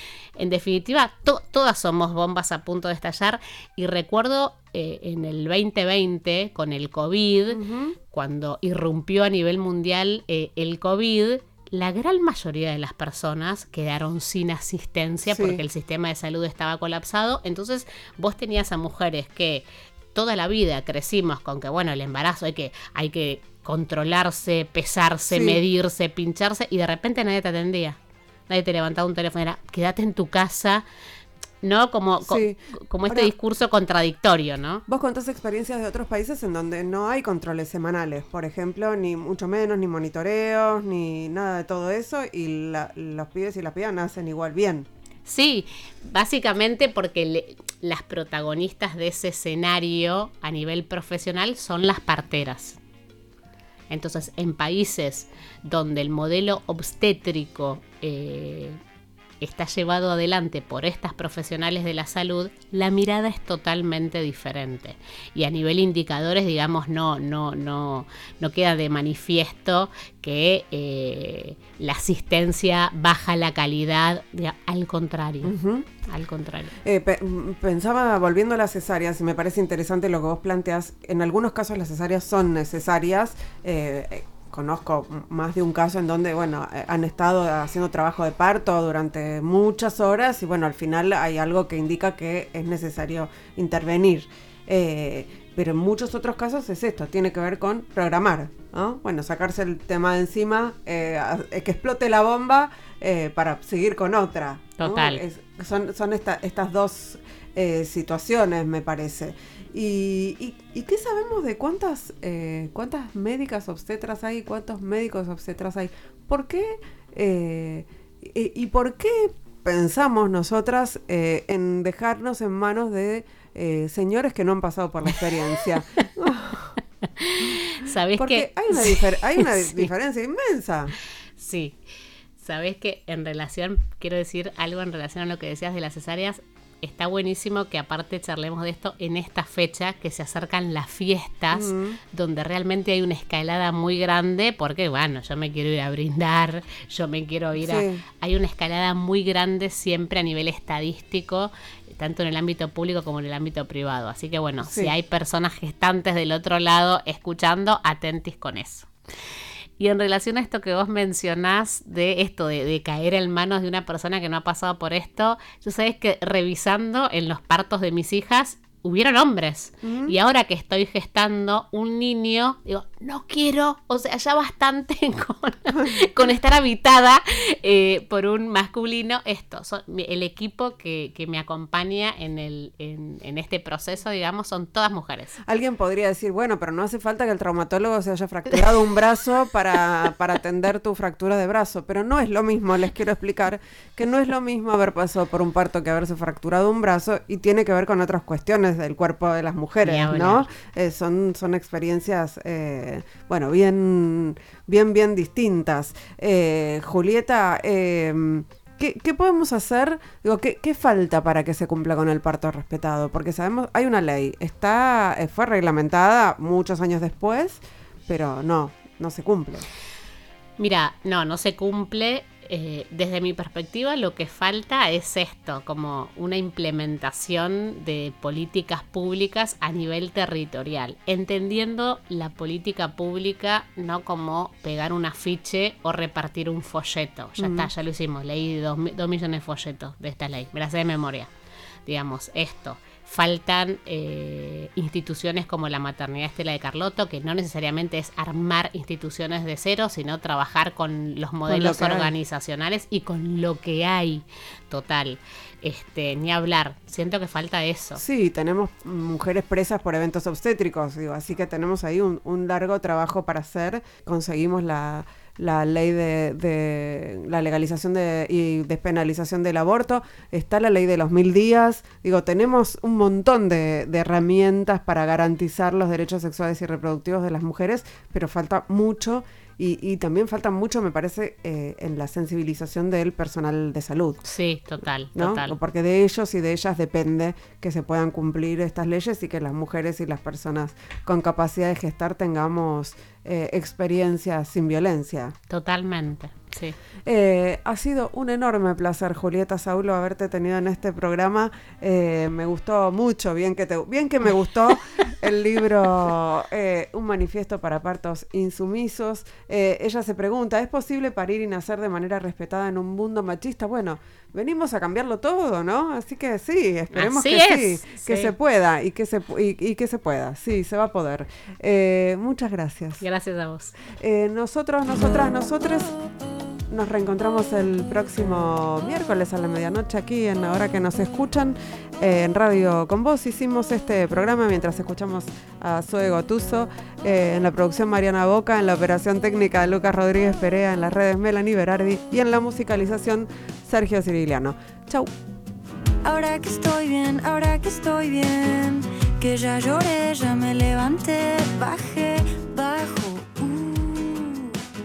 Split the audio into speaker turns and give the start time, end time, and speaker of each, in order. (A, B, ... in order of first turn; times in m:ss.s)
0:00.4-0:28.0 A
0:07.5-0:08.0 B
0:15.3-0:15.6 B
0:25.3-0:25.6 B
0:28.5-0:30.8 A
0:31.6-0:34.8 A
0:32.2-0:33.3 B
0:34.9-0:44.9 B
0:45.3-0:52.8 A
0:53.9-0:58.8 A
0:59.4-1:16.7 A
1:15.4-1:15.9 B
1:16.8-2:06.8 B
1:44.8-1:45.2 A
2:07.0-2:09.9 A
2:08.2-2:10.9 B
2:11.4-2:11.8 A
2:12.4-2:38.9 A
2:21.5-2:22.0 B
2:27.6-2:28.0 B
2:34.6-2:34.9 B
2:39.8-3:05.4 A
2:49.8-2:50.2 B
3:05.4-3:39.6 B
3:19.8-3:20.5 A
3:40.6-4:01.3 A
3:57.4-3:57.7 B
4:01.9-4:18.0 A
4:11.5-4:12.1 B
4:18.0-4:44.2 B
4:44.2-4:45.6 A
4:45.2-4:55.4 B
4:55.5-4:56.8 A
4:57.1-5:23.0 B
5:16.9-5:18.3 A
5:23.0-5:23.8 A
5:23.9-5:25.9 B
5:26.7-5:45.1 B
5:46.0-5:54.6 C